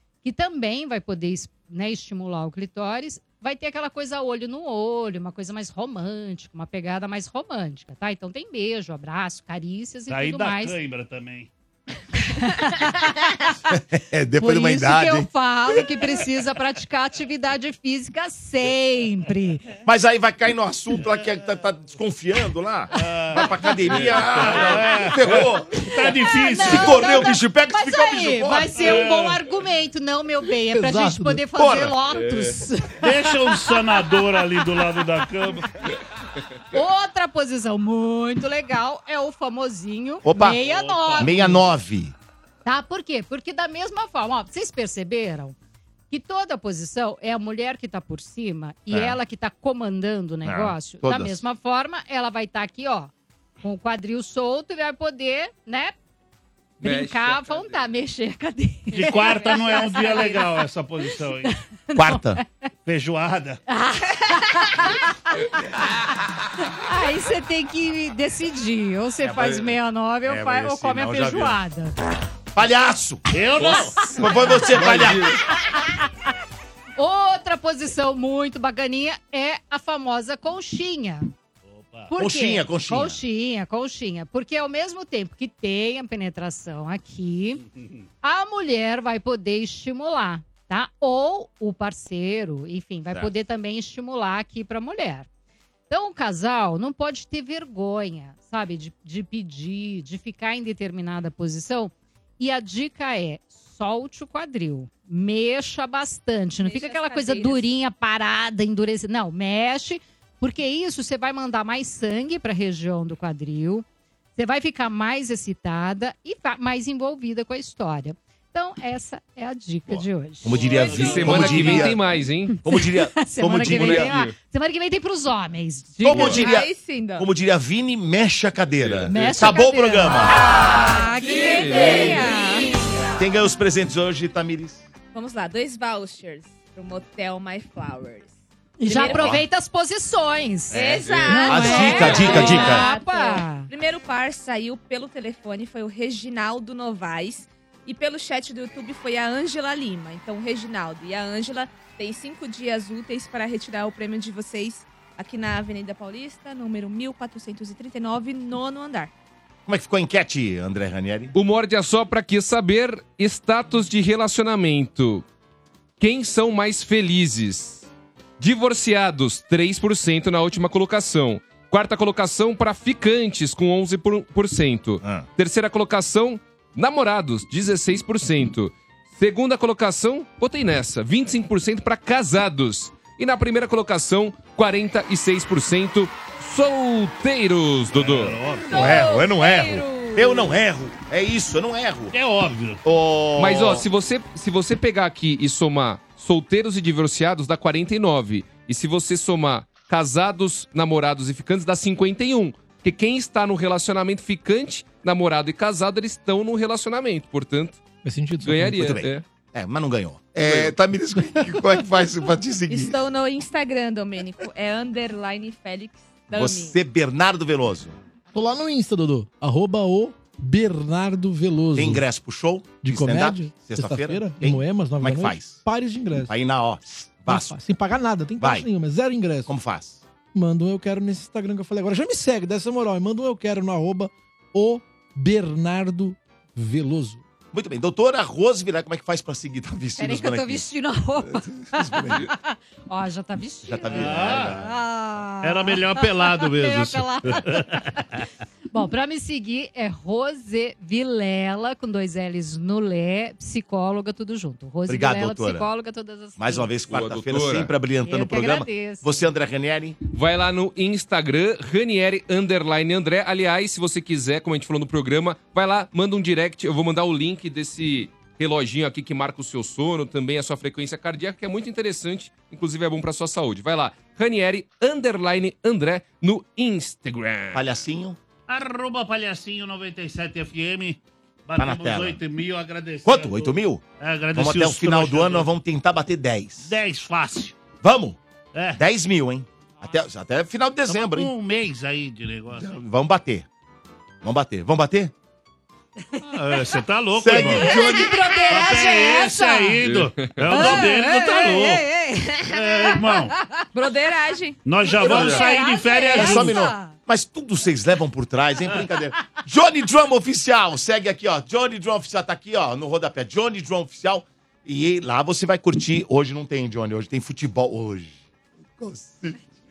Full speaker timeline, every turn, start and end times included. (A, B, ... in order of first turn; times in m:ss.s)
0:00.2-0:10.8 A
0:10.1-0:11.5 B
0:12.2-0:13.6 A
0:13.7-0:15.3 C
0:14.4-0:19.6 A
0:19.8-0:26.0 C
0:22.9-0:27.1 B
0:26.2-0:33.8 A
0:26.6-0:29.0 C
0:28.8-0:29.4 B
0:30.7-0:31.4 D
0:31.6-0:32.0 C
0:32.1-0:32.6 E
0:33.0-0:35.7 B
0:36.7-0:41.6 A
0:40.2-0:40.6 C
0:40.5-0:41.6 B
0:41.2-0:42.1 C
0:42.6-0:45.6 A
0:46.1-0:56.0 A
0:48.9-0:49.2 C
0:50.4-0:51.4 C
0:56.8-1:00.5 A
0:56.8-0:57.8 E
0:58.9-1:01.5 B
1:01.4-1:02.4 A
1:02.0-1:02.4 C
1:02.9-1:03.6 B
1:03.7-1:05.8 A
1:06.7-1:12.0 A
1:09.3-1:09.7 C
1:10.3-1:11.6 C
1:12.5-1:13.3 C
1:13.3-1:14.2 B
1:13.6-1:13.9 E
1:13.9-1:14.6 A
1:14.1-1:15.4 C
1:14.6-1:15.4 E
1:15.6-1:16.1 A
1:17.0-1:21.3 A
1:21.7-1:22.1 B
1:22.1-1:27.6 A
1:22.2-1:23.2 C
1:28.2-1:35.3 A
1:35.9-1:53.8 A
1:46.6-1:47.7 F
1:54.4-2:01.8 A
1:59.9-2:02.0 C
2:00.5-2:02.0 B
2:00.9-2:02.6 E
2:02.5-2:06.6 A
2:02.6-2:04.1 C
2:03.7-2:04.3 E
2:06.0-2:10.6 C
2:06.1-2:07.3 F
2:08.8-2:09.5 E
2:09.1-2:12.7 A
2:10.5-2:12.8 F
2:11.3-2:12.2 E
2:13.2-2:14.8 C
2:15.1-2:18.3 F
2:18.8-2:23.7 A
2:18.8-2:19.4 F
2:19.1-2:19.4 C
2:20.7-2:39.1 F
2:20.7-2:22.6 E
2:21.5-2:22.9 C
2:39.7-2:41.3 C
2:41.3-2:45.2 E
2:46.0-2:47.9 E
2:48.4-3:08.4 E
3:07.9-3:08.8 B
3:08.7-3:10.5 A
3:08.7-3:12.2 C
3:08.7-3:09.3 F
3:09.9-3:10.4 F
3:12.1-3:12.8 B
3:12.8-3:13.8 C
3:13.4-3:27.8 E
3:28.0-3:29.0 D
3:28.4-3:29.2 E
3:28.8-3:33.0 C
3:30.4-3:30.8 E
3:32.7-3:36.8 F
3:36.3-3:38.0 C
3:38.3-3:42.0 D
3:41.8-3:45.6 C
3:42.8-3:46.3 D
3:46.3-3:47.6 C
3:47.3-3:49.5 D
3:48.4-3:48.7 C
3:49.5-3:50.0 C
3:50.3-3:57.2 D
3:57.5-4:00.7 C
4:00.0-4:08.0 A
4:01.3-4:02.3 C
4:03.6-4:04.8 C
4:03.9-4:04.6 B
4:05.4-4:08.3 B
4:08.7-4:16.7 A
4:14.9-4:15.7 C
4:16.4-4:20.0 C
4:16.9-4:17.7 E
4:18.0-4:19.3 A
4:20.1-4:37.6 E
4:37.5-4:38.2 C
4:38.5-4:45.5 B
4:41.6-4:42.2 C
4:43.0-4:43.8 C
4:44.4-4:46.7 C
4:46.6-4:47.6 B
4:47.8-4:48.2 C
4:48.5-4:48.8 B
4:48.8-4:51.3 C
4:50.9-4:52.7 B
4:52.5-4:53.5 C
4:54.2-4:55.1 C
4:56.4-4:57.9 B
4:57.2-4:58.1 C
4:57.3-4:59.8 A
4:58.5-5:01.8 B
4:59.8-5:00.6 E
5:00.5-5:03.0 A
5:02.5-5:03.3 B
5:03.7-5:05.4 F
5:04.6-5:06.6 B
5:05.0-5:06.9 A
5:05.0-5:05.4 C
5:06.2-5:18.2 C
5:18.8-5:19.4 C